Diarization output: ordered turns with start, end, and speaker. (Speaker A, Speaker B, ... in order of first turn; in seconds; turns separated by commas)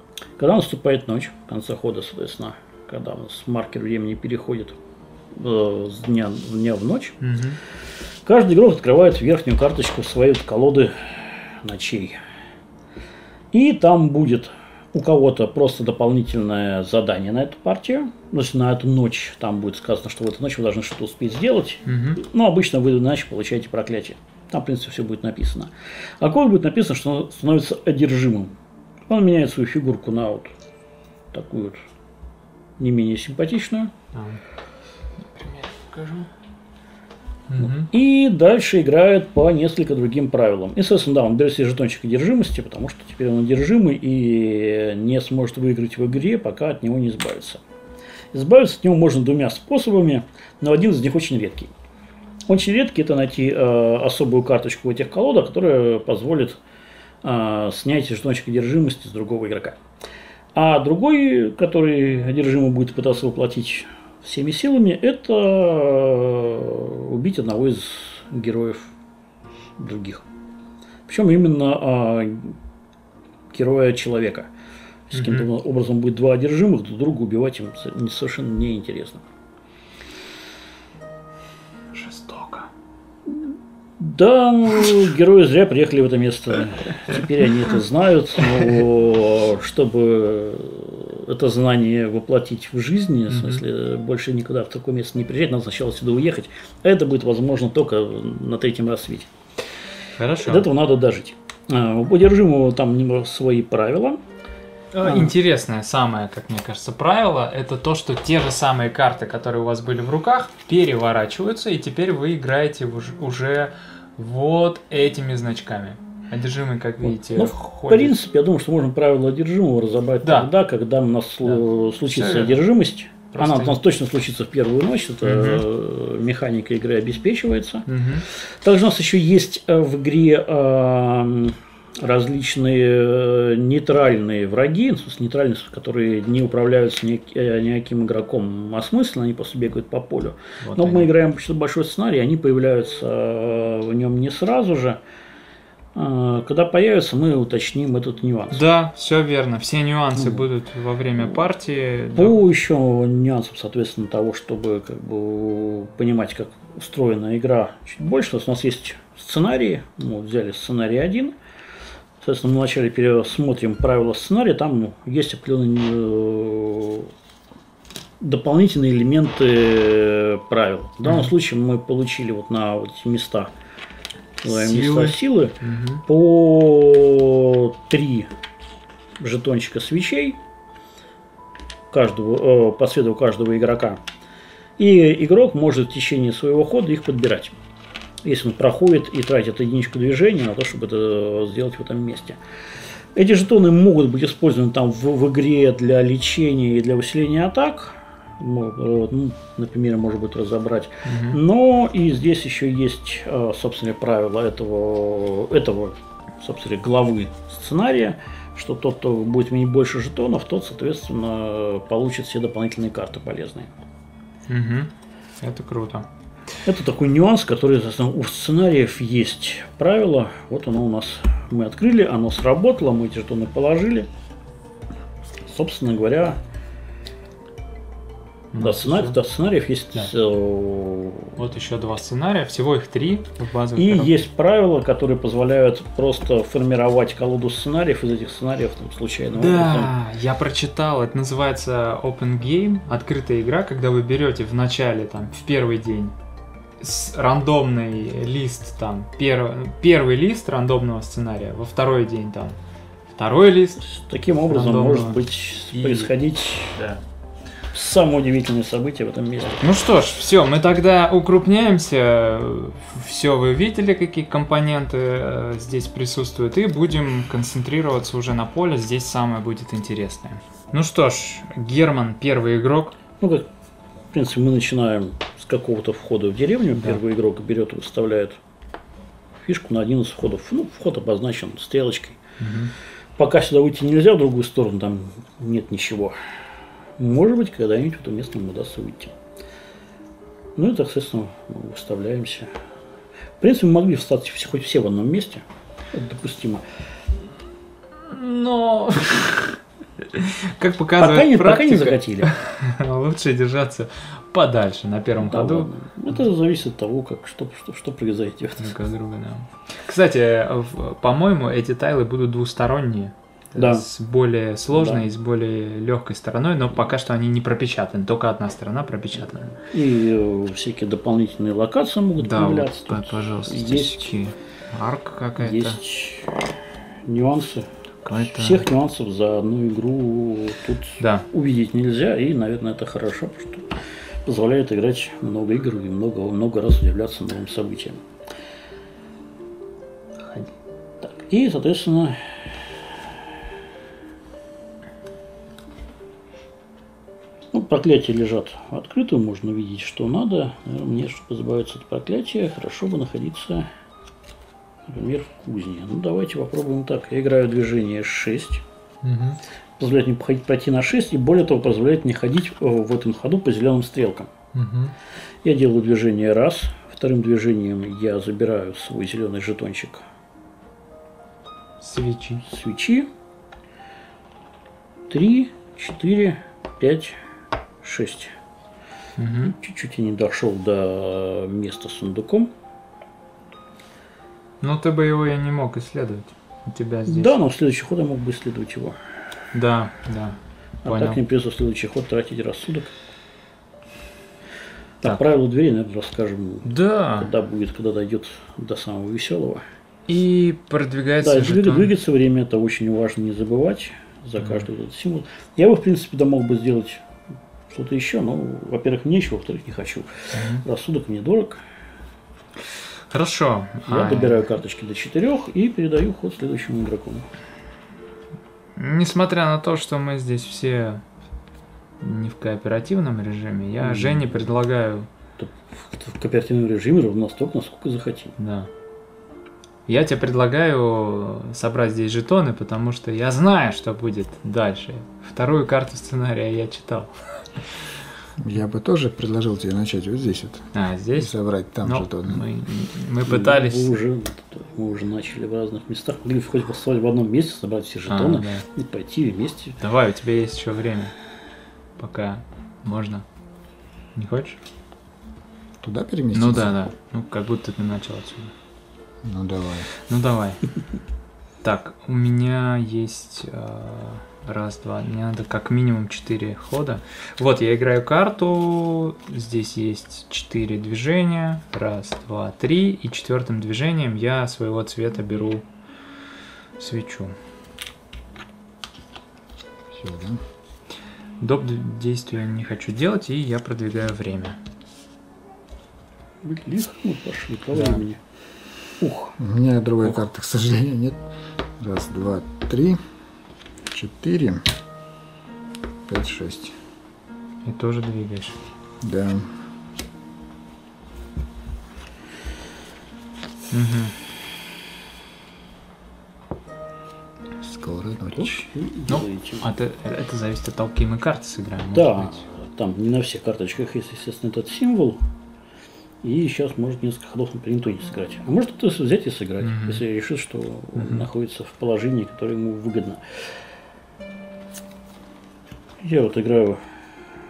Speaker A: 0.4-4.8, Speaker A: 5.3-7.2, Speaker B: 7.2-7.6, Speaker A: 8.2-12.2, Speaker A: 13.5-28.6, Speaker B: 21.9-22.2, Speaker A: 29.1-30.5, Speaker A: 31.3-31.8, Speaker A: 32.8-33.9, Speaker B: 34.1-34.4, Speaker B: 35.3-36.3, Speaker B: 37.5-37.9, Speaker A: 37.6-47.6, Speaker A: 48.3-51.7, Speaker A: 52.5-56.6, Speaker A: 57.2-59.8, Speaker A: 60.5-68.9, Speaker A: 69.8-70.3, Speaker A: 71.1-72.6, Speaker A: 73.5-74.5, Speaker A: 75.1-79.2, Speaker B: 75.1-75.5, Speaker B: 81.9-82.7, Speaker A: 83.3-99.3, Speaker B: 93.3-93.6, Speaker B: 100.2-100.7, Speaker A: 100.4-104.2, Speaker B: 104.9-118.1, Speaker A: 105.0-105.3, Speaker A: 117.0-145.0, Speaker B: 120.2-120.5, Speaker B: 121.5-122.6, Speaker B: 123.3-123.8, Speaker B: 125.2-125.7, Speaker B: 127.9-128.3, Speaker B: 140.6-141.1, Speaker A: 145.9-148.6, Speaker B: 148.5-152.4, Speaker A: 150.2-150.5, Speaker A: 152.2-161.4, Speaker A: 162.2-167.1, Speaker A: 168.2-173.5, Speaker B: 171.0-171.3, Speaker A: 174.4-178.3, Speaker B: 174.4-176.0, Speaker A: 179.2-180.4, Speaker A: 181.9-184.0, Speaker A: 184.8-187.6, Speaker A: 188.2-192.4, Speaker A: 193.1-213.7, Speaker B: 201.1-201.4, Speaker B: 214.5-216.1, Speaker A: 216.7-224.1, Speaker A: 225.4-226.4, Speaker B: 228.5-229.2, Speaker A: 228.6-231.4, Speaker B: 231.3-234.2, Speaker A: 233.8-239.9, Speaker B: 239.3-246.2, Speaker B: 246.8-252.6, Speaker B: 253.1-253.8, Speaker A: 253.8-256.8, Speaker B: 254.4-256.1, Speaker B: 256.7-257.0, Speaker A: 257.7-259.6, Speaker B: 259.6-273.0, Speaker A: 273.2-273.5, Speaker A: 274.1-278.4, Speaker A: 279.4-282.2, Speaker B: 282.4-282.7, Speaker A: 283.2-286.2, Speaker A: 287.0-289.1, Speaker A: 290.6-292.5, Speaker A: 293.4-296.6, Speaker B: 298.0-305.7, Speaker A: 301.0-302.3, Speaker A: 305.3-308.7, Speaker B: 308.6-319.6, Speaker A: 313.6-313.9, Speaker A: 314.7-315.0, Speaker A: 319.7-324.1, Speaker B: 322.2-325.8, Speaker A: 325.4-326.5, Speaker A: 327.1-338.0, Speaker B: 328.0-328.6, Speaker B: 331.0-331.3, Speaker B: 340.2-340.5, Speaker A: 341.0-343.0, Speaker A: 347.5-353.7, Speaker A: 354.9-358.6, Speaker B: 359.0-359.4, Speaker A: 359.8-364.3, Speaker B: 364.5-364.9, Speaker A: 365.4-370.1, Speaker B: 371.8-372.4, Speaker A: 372.4-373.1, Speaker A: 375.1-377.2, Speaker A: 377.8-378.4, Speaker B: 379.2-379.6, Speaker A: 379.4-382.5, Speaker B: 384.6-387.4, Speaker A: 387.1-389.0, Speaker B: 389.5-391.2, Speaker A: 390.9-392.9, Speaker A: 395.0-399.6, Speaker B: 396.6-397.3, Speaker B: 400.1-401.9, Speaker A: 401.2-407.1, Speaker B: 404.4-404.6, Speaker A: 407.7-411.6, Speaker B: 410.3-410.6, Speaker B: 413.1-414.4, Speaker A: 413.9-417.3, Speaker B: 418.8-421.0, Speaker B: 422.0-425.1, Speaker A: 423.8-424.4, Speaker A: 425.4-428.3, Speaker B: 428.4-428.7, Speaker B: 429.9-437.4, Speaker C: 438.4-442.4, Speaker B: 440.7-441.3, Speaker B: 441.9-443.9, Speaker A: 443.3-449.8, Speaker B: 448.1-448.7, Speaker B: 449.8-451.1, Speaker B: 452.0-453.2, Speaker B: 454.2-454.6, Speaker C: 455.8-456.8, Speaker B: 456.3-458.5, Speaker C: 459.2-459.9, Speaker B: 460.1-460.6, Speaker B: 461.6-475.6, Speaker B: 476.8-477.4, Speaker C: 479.9-480.4, Speaker B: 481.4-484.6, Speaker A: 486.4-488.2, Speaker B: 487.7-488.0, Speaker A: 489.0-489.4, Speaker C: 489.4-491.2, Speaker C: 491.8-493.0, Speaker C: 493.9-494.7, Speaker C: 496.1-496.8, Speaker B: 497.6-498.6, Speaker C: 499.0-499.5, Speaker B: 503.7-504.1, Speaker C: 507.6-508.6, Speaker A: 508.4-509.7, Speaker B: 509.1-512.4, Speaker A: 511.9-515.2, Speaker A: 516.2-523.4, Speaker B: 519.6-520.0, Speaker B: 521.0-521.3, Speaker A: 526.0-526.8